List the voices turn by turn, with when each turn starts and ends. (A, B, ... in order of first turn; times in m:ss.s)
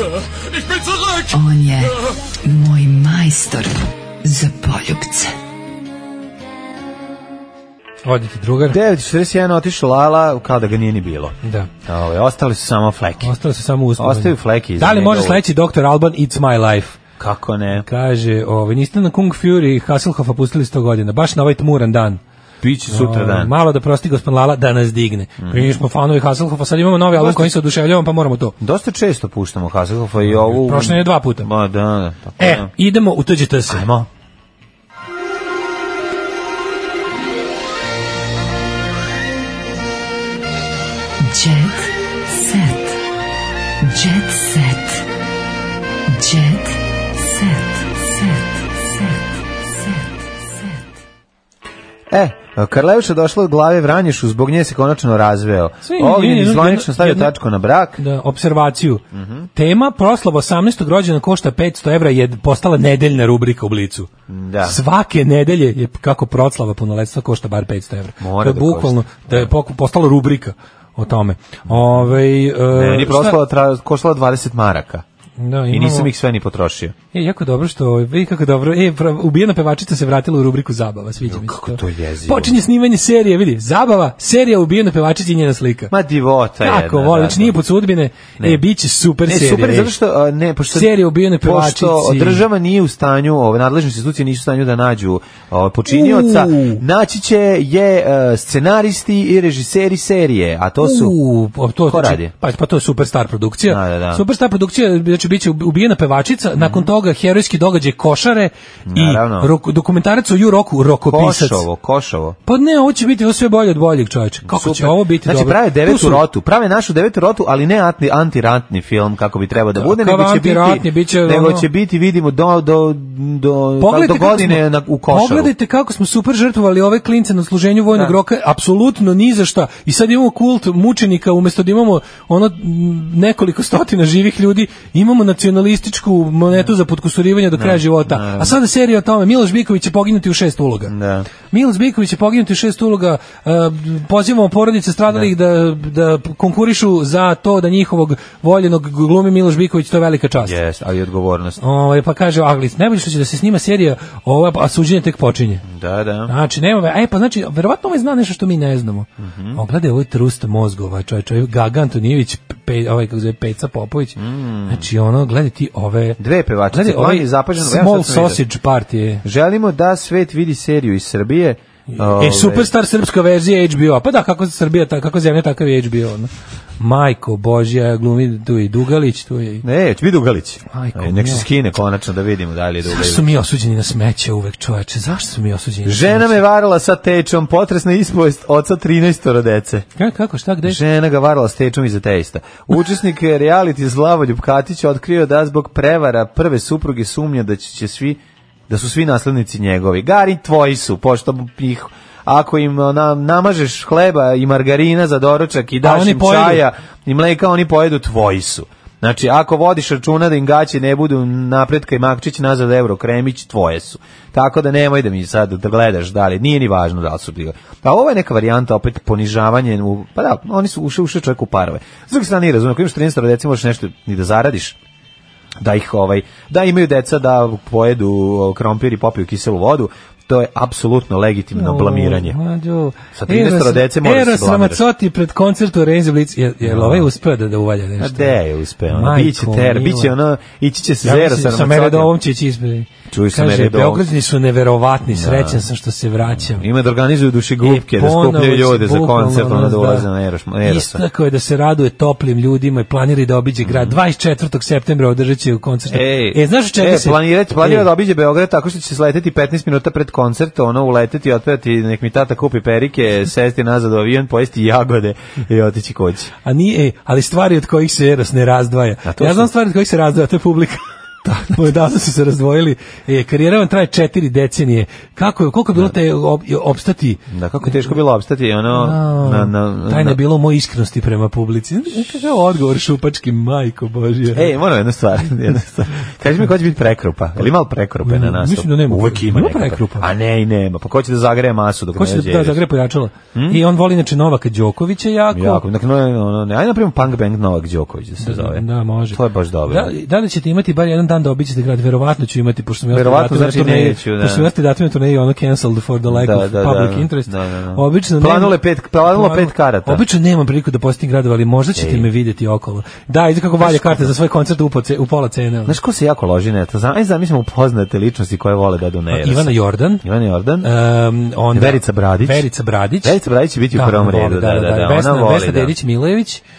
0:01.3-0:05.3 A
0:08.0-0:08.8 B
0:08.7-0:13.3 C
0:11.4-0:11.7 B
0:13.2-0:17.0 B
0:14.0-0:15.4 C
0:17.2-0:17.9 C
0:17.8-0:22.2 B
0:22.6-0:23.5 C
0:22.9-0:28.6 B
0:25.4-0:25.8 C
0:27.2-0:27.6 C
0:28.6-0:32.7 C
0:30.3-0:31.5 B
0:32.4-0:33.9 B
0:33.7-0:34.1 C
0:41.2-0:43.0 A
0:43.8-0:45.0 A
0:46.1-0:50.8 A
0:52.1-0:58.0 C
0:55.8-0:57.3 B
0:58.0-0:59.0 B
0:59.1-0:59.5 C
0:59.6-1:04.1 B
1:04.3-1:04.8 C
1:04.6-1:13.4 B
1:08.2-1:09.5 C
1:11.7-1:12.1 C
1:12.7-1:15.0 C
1:15.4-1:16.1 B
1:15.7-1:17.0 C
1:17.1-1:25.9 B
1:21.3-1:22.6 C
1:25.9-1:27.6 C
1:26.6-1:29.9 B
1:29.3-1:41.2 C
1:30.7-1:32.4 B
1:35.9-1:36.8 B
1:40.8-1:51.7 B
1:41.9-1:42.3 C
1:43.7-1:44.2 C
1:46.6-1:46.9 C
1:48.9-1:49.5 C
1:51.1-1:52.4 C
1:52.5-1:56.2 B
1:54.5-2:05.5 C
1:59.7-2:01.7 B
2:03.8-2:20.9 B
2:17.5-2:18.6 C
2:20.9-2:21.3 C
2:21.5-2:30.6 B
2:30.4-2:31.6 C
2:31.6-2:35.6 B
2:35.7-2:36.3 C
2:36.3-2:49.2 B
2:39.2-2:39.6 C
2:44.2-2:44.9 C
2:46.2-2:48.4 C
2:49.2-2:52.7 C
2:51.9-2:59.6 B
2:59.6-3:03.3 C
3:00.7-3:01.4 B
3:02.9-3:06.4 B
3:05.8-3:09.9 C
3:10.0-3:10.8 B
3:10.6-3:44.8 C
3:25.8-3:26.6 B
3:45.6-3:52.4 C
3:51.6-3:58.4 B
3:53.2-3:54.8 C
3:56.6-3:57.1 C
3:58.0-4:02.1 C
3:58.9-4:00.1 B
4:01.0-4:06.6 B
4:03.1-4:04.1 C
4:05.1-4:05.7 C
4:06.3-4:11.0 C
4:07.6-4:10.1 B
4:10.6-4:17.9 B
4:13.6-4:14.0 C
4:15.9-4:26.3 C
4:26.4-4:37.9 B
4:29.0-4:29.5 C
4:37.3-4:40.2 C
4:38.7-4:44.5 B
4:44.3-4:52.6 C
4:48.0-4:50.1 B
4:52.0-4:55.6 B
4:53.3-4:53.6 C
4:55.3-4:59.9 C
4:58.2-5:15.8 B
5:02.9-5:04.5 C
5:06.1-5:10.0 C
5:11.8-5:12.1 C
5:13.6-5:14.1 C
5:15.7-5:20.7 C
5:19.1-5:20.0 B
5:20.6-5:23.2 B
5:21.5-5:22.5 C
5:23.0-5:25.8 C
5:23.7-5:26.4 B